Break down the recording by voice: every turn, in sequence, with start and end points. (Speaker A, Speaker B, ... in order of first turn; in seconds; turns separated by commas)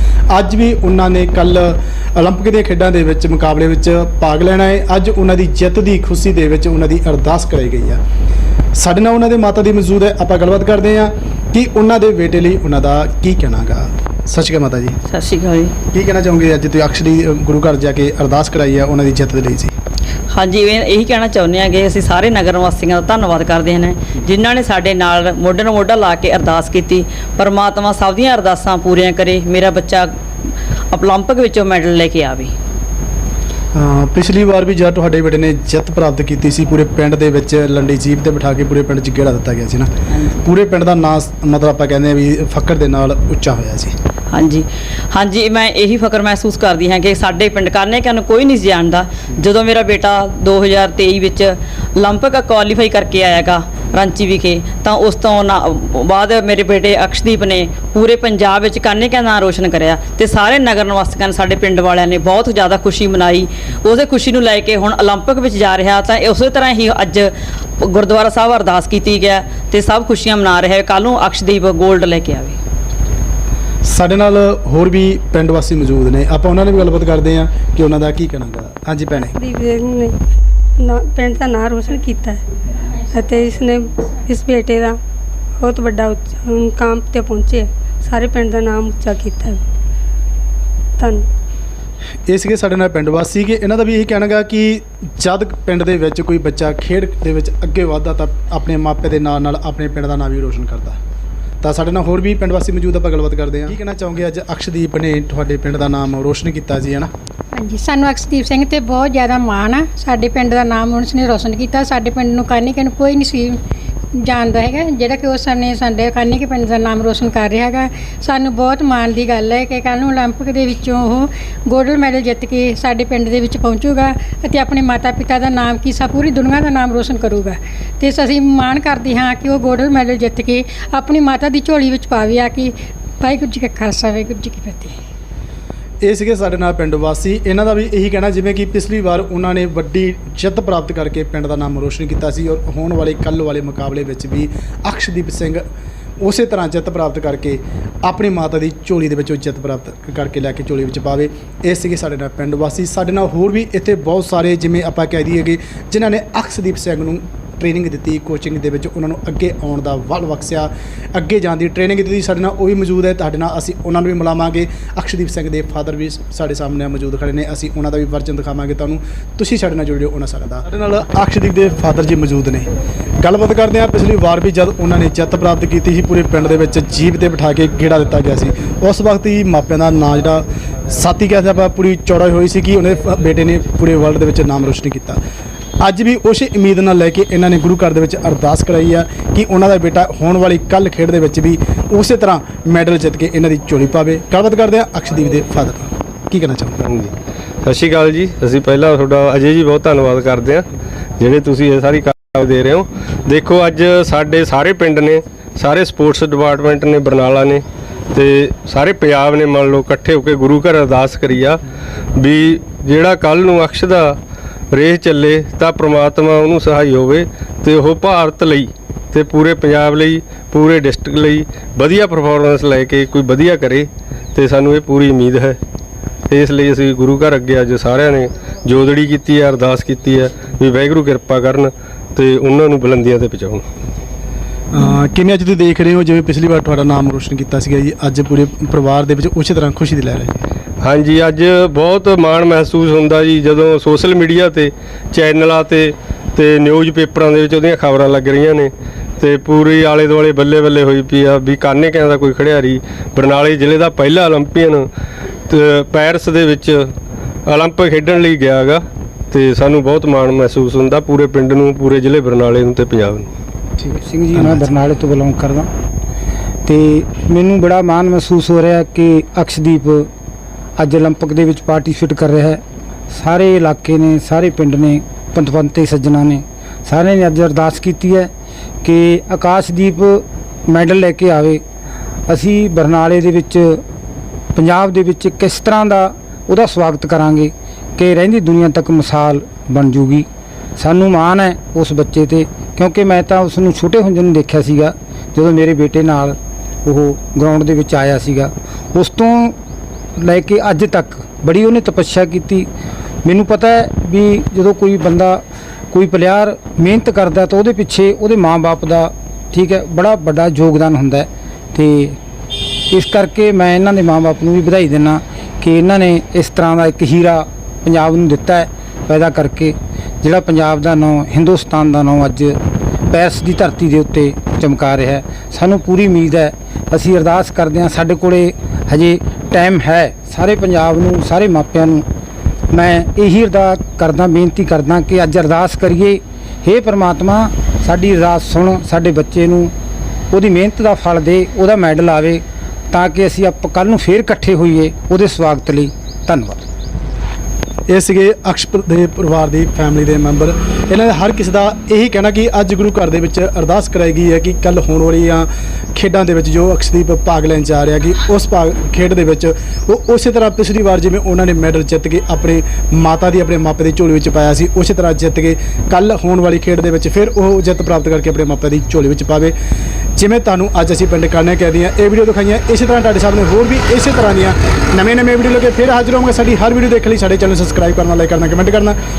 Speaker A: 0.3-8.0, Speaker A: 8.8-15.0, Speaker B: 15.1-15.8, Speaker A: 15.9-19.7, Speaker B: 20.3-30.2, Speaker B: 30.9-32.5, Speaker A: 33.8-39.9, Speaker A: 40.4-43.9, Speaker B: 44.3-72.6, Speaker A: 73.8-79.4, Speaker C: 79.3-80.2, Speaker C: 80.8-82.4, Speaker C: 83.1-85.0, Speaker C: 85.6-89.6, Speaker C: 91.0-91.2, Speaker A: 92.3-101.0, Speaker A: 101.6-107.1, Speaker D: 107.6-113.6, Speaker D: 114.2-134.9, Speaker A: 136.0-145.6, Speaker A: 146.2-172.7, Speaker A: 173.2-185.2, Speaker A: 185.8-196.8, Speaker E: 196.9-200.7, Speaker E: 201.2-207.6, Speaker E: 208.1-211.6, Speaker E: 212.2-214.2, Speaker E: 214.7-225.6, Speaker E: 226.3-233.6, Speaker A: 234.7-240.4, Speaker E: 240.8-254.9, Speaker E: 255.5-256.9, Speaker E: 257.5-263.3, Speaker A: 263.8-264.7, Speaker F: 263.9-265.7, Speaker F: 266.6-270.1, Speaker F: 270.8-278.3, Speaker F: 278.8-281.6, Speaker F: 282.3-283.8, Speaker F: 284.6-290.3, Speaker F: 290.8-299.6, Speaker F: 300.2-302.7, Speaker F: 303.2-312.2, Speaker F: 312.9-332.1, Speaker F: 332.7-339.7, Speaker F: 340.3-346.6, Speaker A: 347.9-369.5, Speaker A: 370.2-379.0